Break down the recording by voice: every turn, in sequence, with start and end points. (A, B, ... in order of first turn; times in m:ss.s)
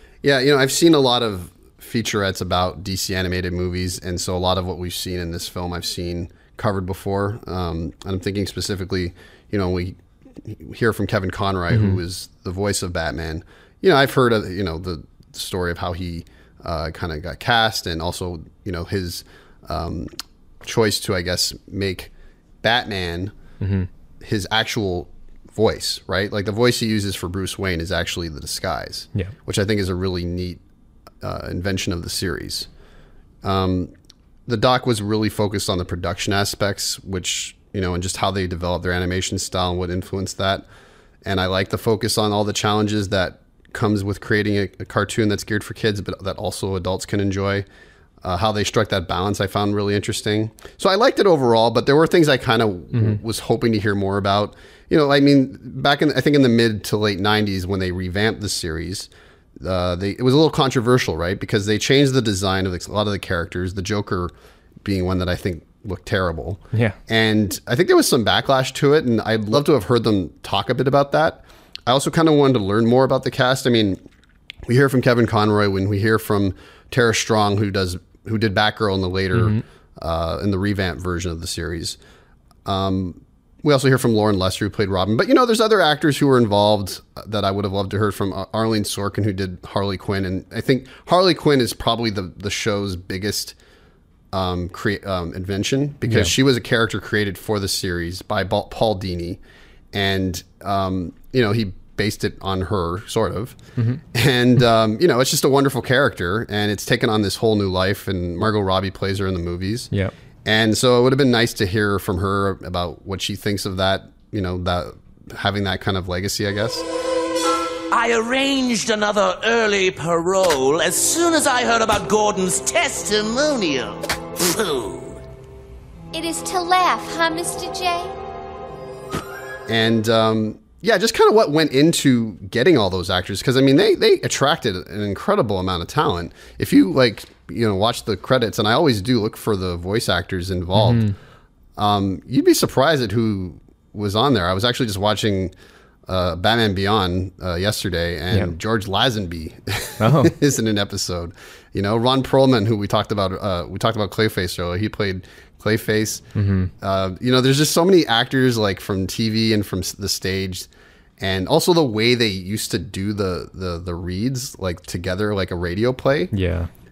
0:00.2-0:20.1 A
0:11.7-0:12.0 B
0:20.6-0:22.1 A
0:22.6-0:23.3 A
0:23.6-0:23.9 B
0:24.2-0:30.6 A
0:31.2-0:32.7 A
0:33.4-0:33.9 A
0:34.4-0:40.7 A
0:41.2-0:47.6 A
0:48.2-1:04.3 A
0:52.9-0:53.2 B
1:04.8-1:14.0 A
1:06.7-1:07.0 B
1:14.7-1:22.0 A
1:19.3-1:19.6 B
1:22.6-1:33.6 A
1:34.3-1:39.4 A
1:36.1-1:36.3 B
1:39.9-1:43.6 A
1:44.1-1:49.9 A
1:50.4-1:56.9 A
1:57.9-2:05.2 C
2:06.1-2:08.1 D
2:09.7-2:21.1 A
2:20.7-2:21.1 B
2:21.8-2:25.5 A
2:26.0-2:36.2 A
2:30.0-2:30.4 B
2:36.3-2:36.7 B
2:36.8-2:46.3 A
2:46.3-2:46.7 B